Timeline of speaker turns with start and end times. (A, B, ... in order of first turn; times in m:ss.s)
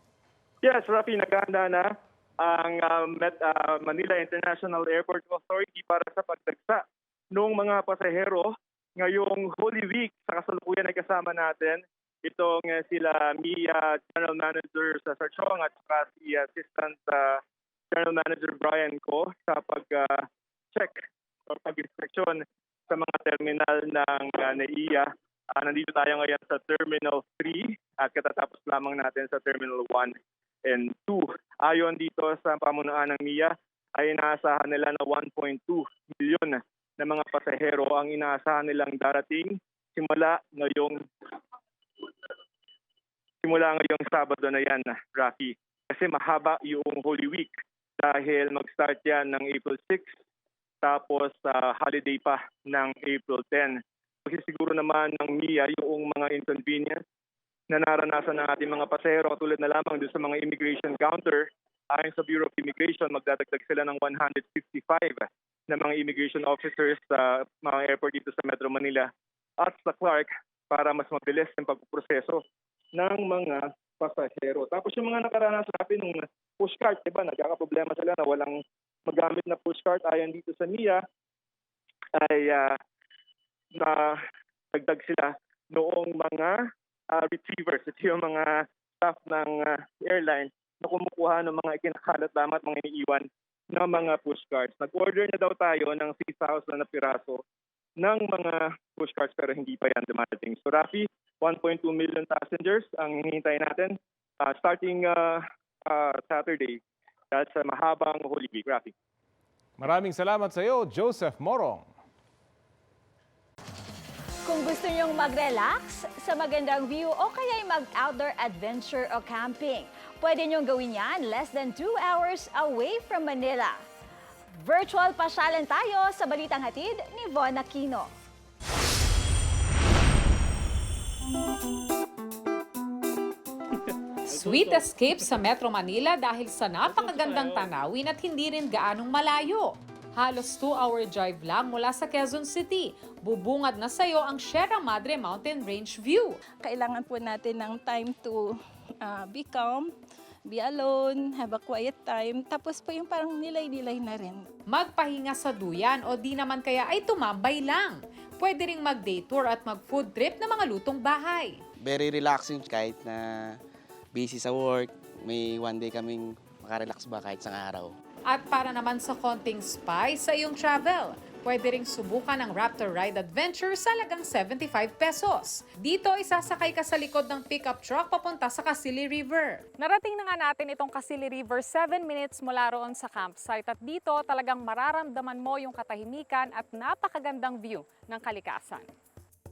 0:00.6-0:17.4 A
0:17.9-0:41.0 A
0:43.4-0:50.1 A
0:50.8-0:57.0 A
0:57.7-1:12.4 A
1:13.0-1:21.0 A
1:22.2-1:22.8 A
1:23.8-1:24.2 A
1:24.7-1:37.4 A
1:38.0-1:46.8 A
1:47.3-1:48.9 A
1:49.8-1:51.9 B
1:54.5-2:03.8 C
2:04.5-2:08.1 C
2:14.3-2:26.4 D
2:26.6-2:29.9 E
2:30.5-2:34.4 E
2:34.7-2:41.6 D
2:41.8-2:43.4 F
2:44.1-2:47.9 F
2:48.3-2:59.6 D
2:59.8-3:08.9 G